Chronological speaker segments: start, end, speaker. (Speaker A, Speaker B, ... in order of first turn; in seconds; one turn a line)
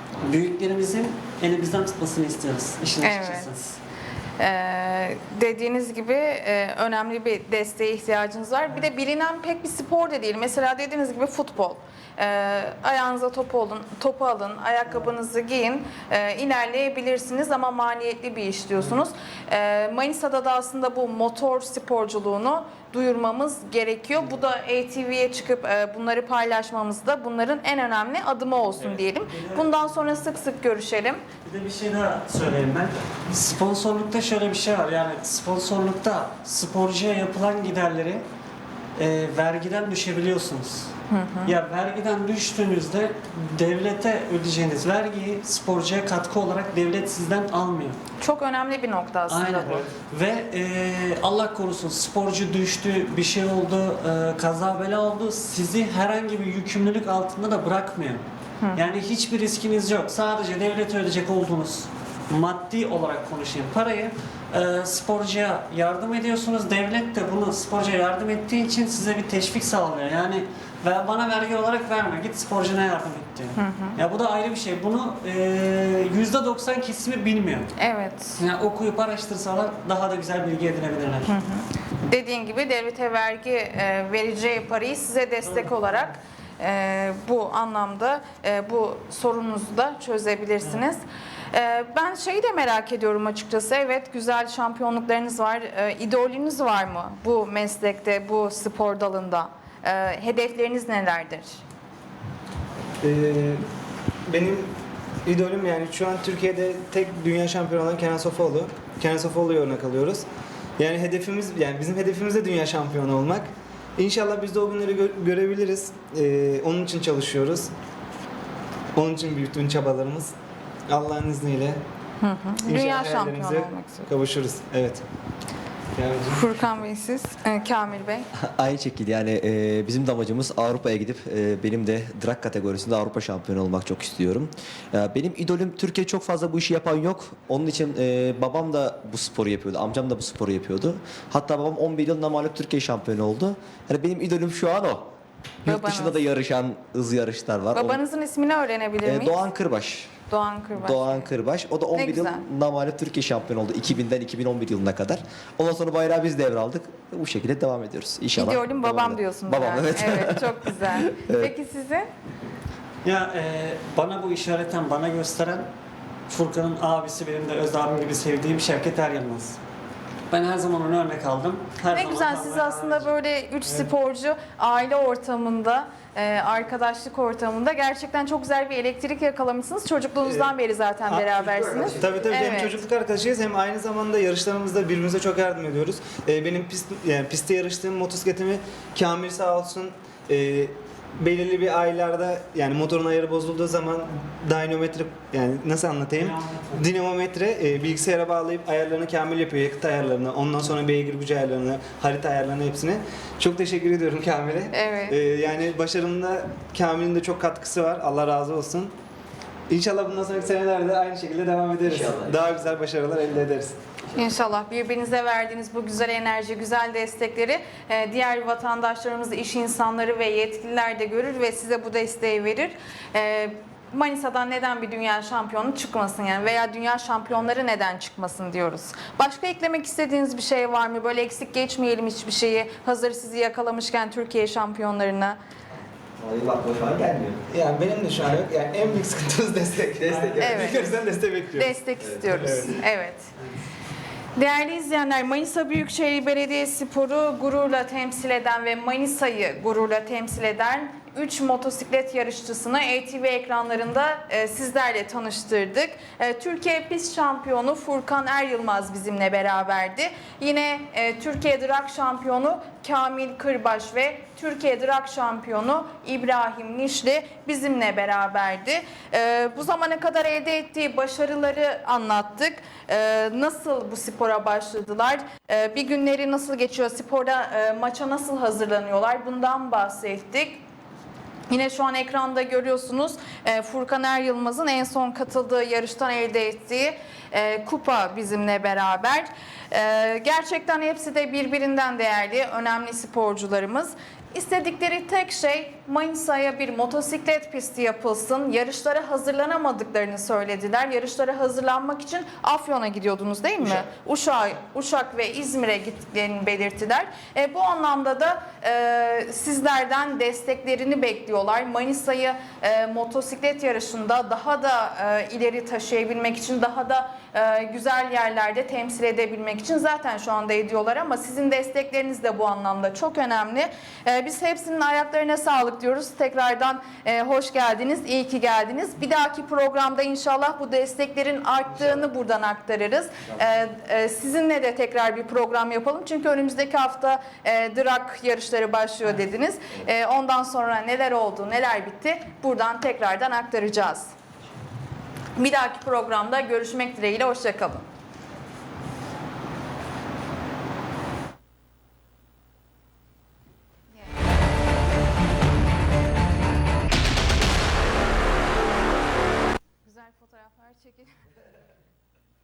Speaker A: 0.2-3.8
Speaker B: 3.0-3.5
Speaker B: 4.4-31.2
Speaker A: 28.8-30.2
Speaker A: 31.4-38.2
Speaker A: 39.0-40.9
Speaker B: 41.1-41.5
Speaker A: 41.5-48.0
Speaker B: 48.2-49.8
Speaker A: 49.3-58.2
Speaker A: 58.8-77.7
Speaker B: 73.6-74.0
Speaker B: 77.8-78.4
Speaker A: 78.4-81.3
Speaker B: 81.3-91.0
Speaker A: 85.5-86.0
Speaker B: 91.5-101.6
Speaker C: 103.0-103.6
Speaker C: 104.3-104.7
Speaker C: 105.2-110.2
Speaker C: 110.8-117.7
Speaker C: 119.0-120.3
Speaker C: 120.9-121.8
Speaker B: 122.2-124.1
Speaker C: 122.7-125.0
Speaker C: 126.0-126.5
Speaker B: 126.3-128.3
Speaker D: 128.4-145.1
Speaker B: 145.6-146.2
Speaker D: 145.7-148.0
Speaker B: 147.7-149.4
Speaker D: 149.0-150.1
Speaker B: 150.3-151.3
Speaker D: 150.8-161.5
Speaker B: 151.9-152.4
Speaker B: 158.3-162.1
Speaker A: 163.0-165.7
Speaker A: 166.3-169.6
Speaker A: 170.3-173.1
Speaker B: 171.9-182.8
Speaker C: 180.2-180.5
Speaker C: 181.1-208.9
Speaker A: 196.2-196.8
Speaker B: 204.7-205.2
Speaker C: 209.7-213.8
Speaker D: 211.8-212.5
Speaker B: 214.1-235.4
Speaker D: 236.2-237.4
Speaker C: 237.5-242.8
Speaker A: 240.1-240.9
Speaker B: 240.4-240.8
Speaker B: 241.6-243.3
Speaker B: 244.4-280.6
Speaker B: 281.5-344.1
Speaker B: 345.4-347.9
Speaker B: 353.9-354.2
Speaker B: 359.8-361.2